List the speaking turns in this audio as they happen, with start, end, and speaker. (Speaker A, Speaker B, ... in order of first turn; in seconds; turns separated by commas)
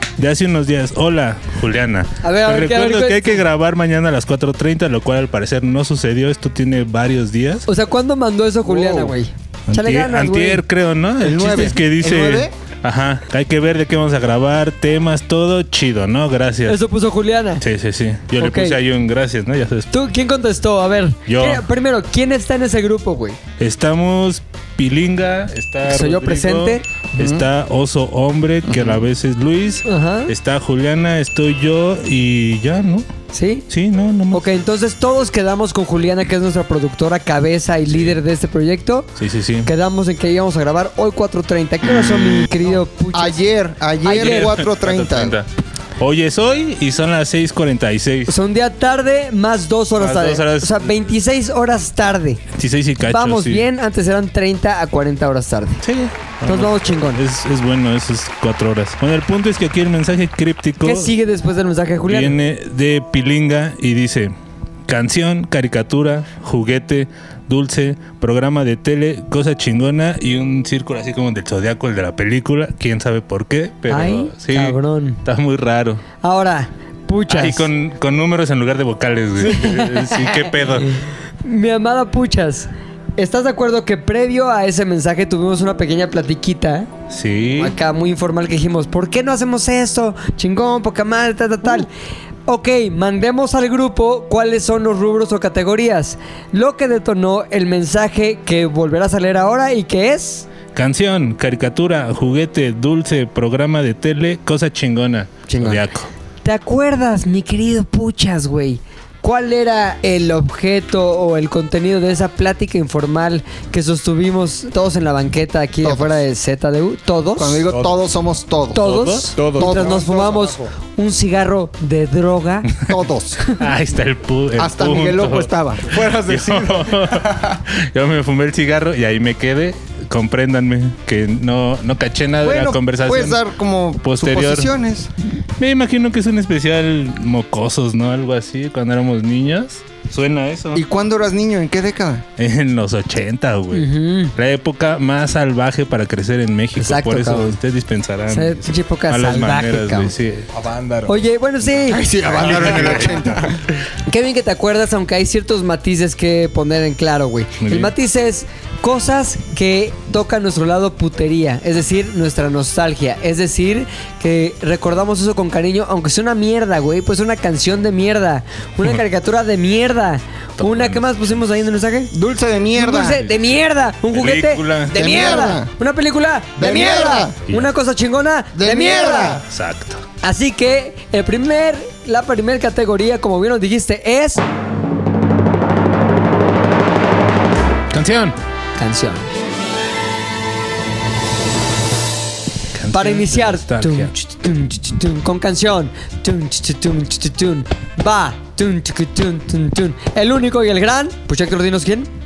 Speaker A: 0.2-7.7, Speaker B: 2.2-3.4, Speaker B: 7.7-10.6, Speaker A: 9.7-16.8, Speaker C: 11.2-12.5, Speaker B: 16.7-17.6, Speaker A: 17.6-19.9, Speaker B: 18.4-18.8, Speaker B: 19.9-23.4, Speaker A: 21.3-21.6, Speaker A: 23.6-33.1, Speaker B: 25.9-26.8, Speaker C: 27.2-27.5, Speaker C: 28.6-29.1, Speaker B: 29.9-30.3, Speaker B: 33.3-33.6, Speaker A: 33.7-34.5, Speaker B: 34.3-39.1, Speaker A: 39.2-39.7, Speaker B: 39.7-43.4, Speaker C: 43.1-45.4, Speaker B: 44.0-44.5, Speaker A: 44.1-48.3, Speaker B: 48.3-52.4, Speaker A: 50.0-50.9, Speaker A: 52.5-53.6, Speaker B: 53.1-55.8, Speaker A: 55.8-61.1, Speaker B: 56.4-57.2, Speaker B: 60.8-62.4, Speaker A: 62.1-64.3, Speaker A: 64.9-76.0, Speaker B: 73.9-75.2, Speaker B: 76.2-77.7, Speaker A: 77.3-80.9, Speaker B: 79.5-79.8, Speaker B: 80.9-86.9, Speaker A: 87.1-87.8, Speaker B: 87.6-91.9, Speaker B: 92.5-100.5, Speaker A: 100.8-106.1, Speaker B: 105.5-105.8, Speaker B: 106.4-117.6, Speaker C: 115.8-116.2, Speaker C: 117.4-120.0, Speaker D: 117.7-118.0, Speaker B: 118.7-122.7, Speaker D: 119.3-120.7, Speaker C: 122.9-123.4, Speaker A: 123.6-125.5, Speaker C: 124.6-125.9, Speaker D: 125.9-127.5, Speaker A: 126.3-133.4, Speaker C: 132.4-135.1, Speaker A: 134.0-134.7, Speaker A: 135.6-140.8, Speaker C: 140.7-142.2, Speaker A: 142.4-150.5, Speaker B: 143.7-144.3, Speaker B: 146.8-147.6, Speaker B: 148.3-150.1, Speaker D: 150.5-151.2, Speaker B: 151.1-152.0, Speaker C: 151.9-153.6, Speaker D: 152.2-153.6, Speaker B: 154.1-172.1, Speaker A: 157.6-157.9, Speaker A: 170.6-171.1, Speaker C: 172.1-173.2, Speaker B: 172.8-179.4, Speaker A: 174.1-175.0, Speaker C: 174.9-175.7, Speaker C: 176.6-177.4, Speaker C: 178.6-179.4, Speaker A: 179.5-180.1, Speaker B: 180.2-184.4, Speaker A: 187.9-188.4, Speaker B: 188.8-189.3, Speaker A: 192.8-194.1, Speaker B: 192.9-202.1